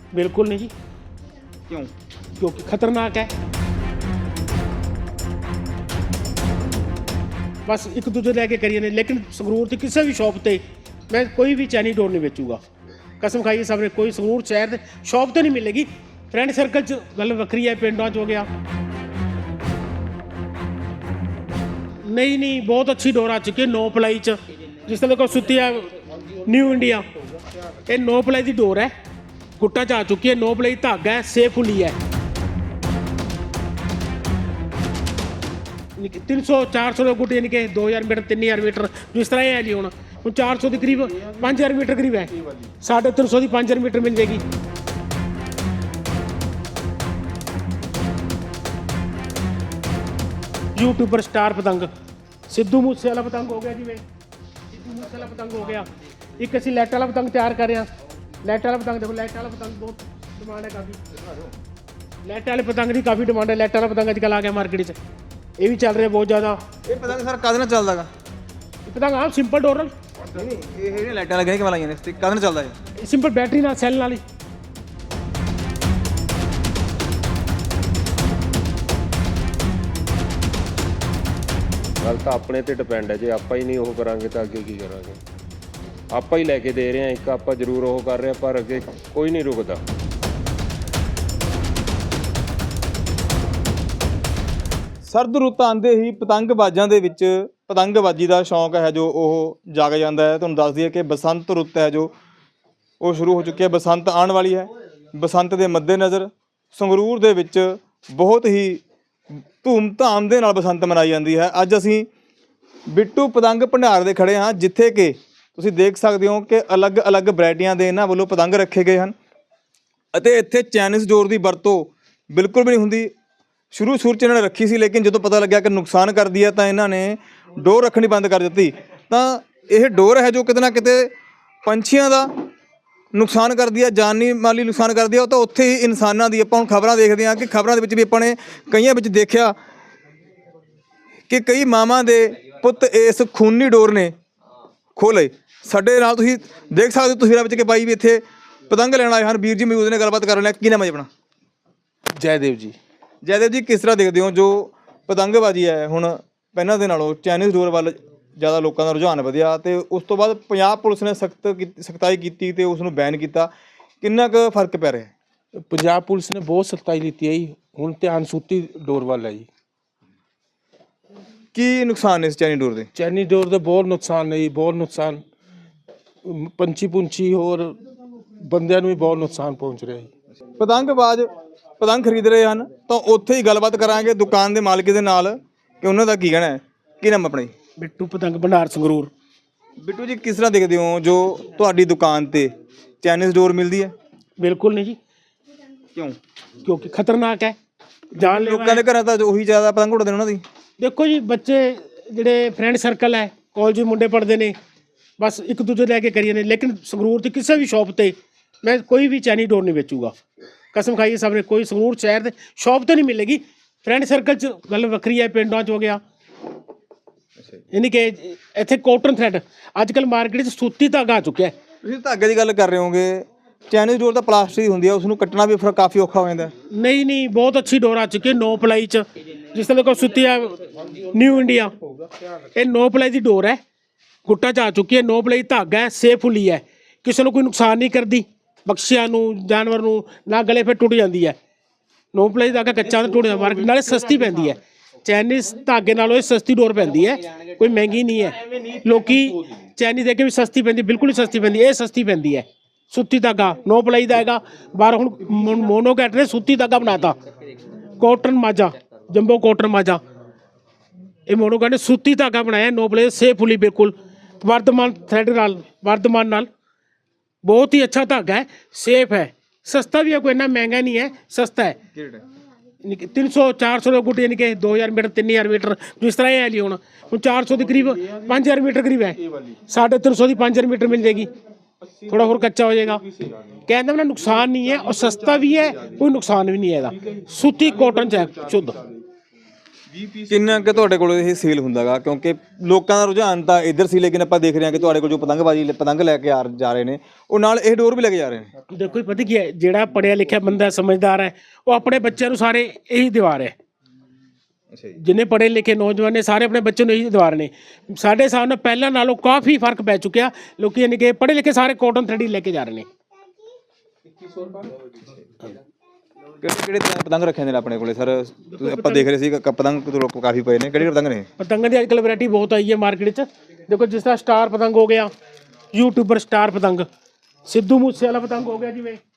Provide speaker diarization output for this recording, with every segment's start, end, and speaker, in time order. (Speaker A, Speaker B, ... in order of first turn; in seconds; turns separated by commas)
Speaker A: 0.1-0.7, Speaker A: 2.4-3.3, Speaker A: 7.7-12.6, Speaker A: 13.2-18.5, Speaker A: 22.0-27.1, Speaker A: 27.9-28.9, Speaker A: 29.6-32.0, Speaker A: 36.0-44.4, Speaker A: 50.8-51.9, Speaker A: 52.5-54.0, Speaker A: 54.7-57.9, Speaker A: 58.4-61.0, Speaker B: 61.1-61.5, Speaker A: 62.2-65.0, Speaker A: 65.6-66.6, Speaker B: 66.9-68.1, Speaker A: 68.9-69.9, Speaker B: 70.3-72.8, Speaker A: 73.0-74.2, Speaker C: 82.0-85.2, Speaker C: 86.1-89.8, Speaker B: 95.0-102.1, Speaker B: 103.0-108.8, Speaker B: 109.6-112.1, Speaker B: 112.9-119.1, Speaker B: 120.1-123.1, Speaker B: 123.7-131.1, Speaker B: 131.7-132.3, Speaker B: 133.1-139.6, Speaker B: 141.3-144.1, Speaker B: 145.0-151.1, Speaker D: 152.2-152.8, Speaker B: 153.2-163.5, Speaker B: 164.0-165.1, Speaker D: 165.6-169.5, Speaker B: 171.5-172.9, Speaker D: 172.9-175.2, Speaker D: 176.2-177.8, Speaker D: 178.4-180.1, Speaker B: 180.6-187.5, Speaker A: 187.8-189.1, Speaker B: 189.8-193.9, Speaker A: 194.4-195.0, Speaker A: 196.6-197.6, Speaker B: 198.1-200.4, Speaker A: 198.2-198.8, Speaker A: 200.8-204.6, Speaker A: 205.2-210.1, Speaker A: 210.7-216.0, Speaker A: 217.7-221.5, Speaker B: 221.8-226.5, Speaker A: 226.7-231.8, Speaker A: 232.5-233.6, Speaker A: 234.3-241.4, Speaker A: 242.1-257.2, Speaker A: 258.0-260.0, Speaker A: 261.3-266.5, Speaker A: 267.4-271.8, Speaker B: 271.9-272.2, Speaker A: 272.8-281.3, Speaker A: 282.1-288.9, Speaker B: 290.1-298.5, Speaker A: 298.7-303.6, Speaker A: 305.0-312.9, Speaker B: 316.4-321.3, Speaker A: 318.6-319.1, Speaker A: 321.4-325.1, Speaker A: 325.7-326.9, Speaker A: 327.5-329.0